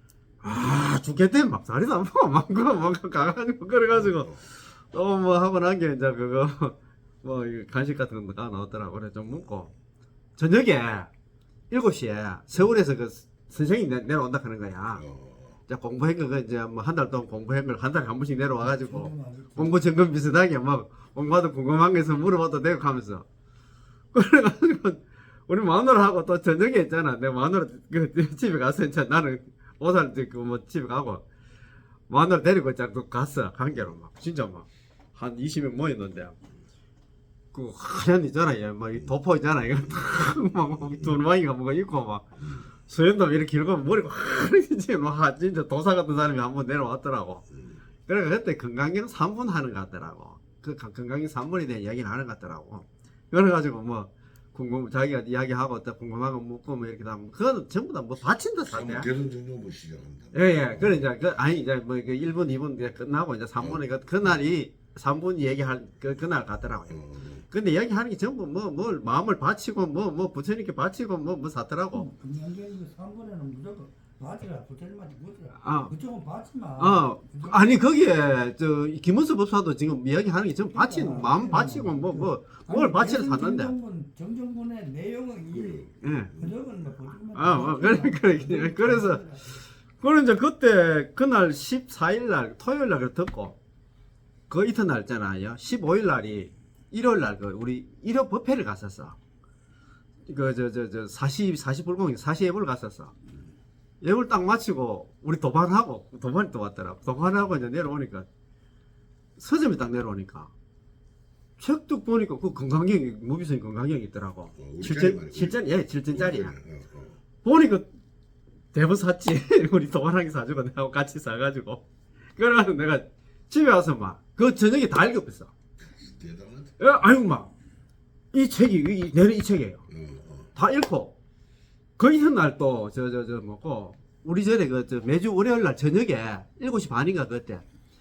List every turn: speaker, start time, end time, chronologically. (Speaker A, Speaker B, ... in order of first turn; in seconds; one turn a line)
Speaker A: 0.4-9.7
Speaker A: 10.4-11.1
Speaker A: 11.7-15.1
Speaker B: 15.0-15.6
Speaker A: 15.7-23.2
Speaker C: 18.6-19.8
Speaker A: 24.1-31.2
Speaker A: 32.1-36.4
Speaker A: 37.5-47.5
Speaker A: 48.1-59.1
Speaker B: 58.7-61.1
Speaker A: 60.3-72.1
Speaker B: 66.9-67.4
Speaker C: 71.9-77.8
Speaker A: 75.6-75.9
Speaker A: 76.8-83.7
Speaker C: 80.7-89.6
Speaker B: 85.6-85.9
Speaker A: 86.0-86.4
Speaker A: 87.3-89.2
Speaker A: 90.0-93.6
Speaker A: 94.5-99.2
Speaker A: 100.3-103.1
Speaker A: 104.0-108.3
Speaker A: 109.4-110.5
Speaker A: 111.6-116.6
Speaker B: 114.6-115.6
Speaker B: 116.1-117.2
Speaker A: 117.4-117.9
Speaker A: 118.7-121.8
Speaker A: 122.4-125.5
Speaker B: 125.8-126.7
Speaker A: 126.8-127.5
Speaker A: 128.3-129.8
Speaker B: 129.9-130.5
Speaker A: 130.6-131.2
Speaker A: 132.0-137.6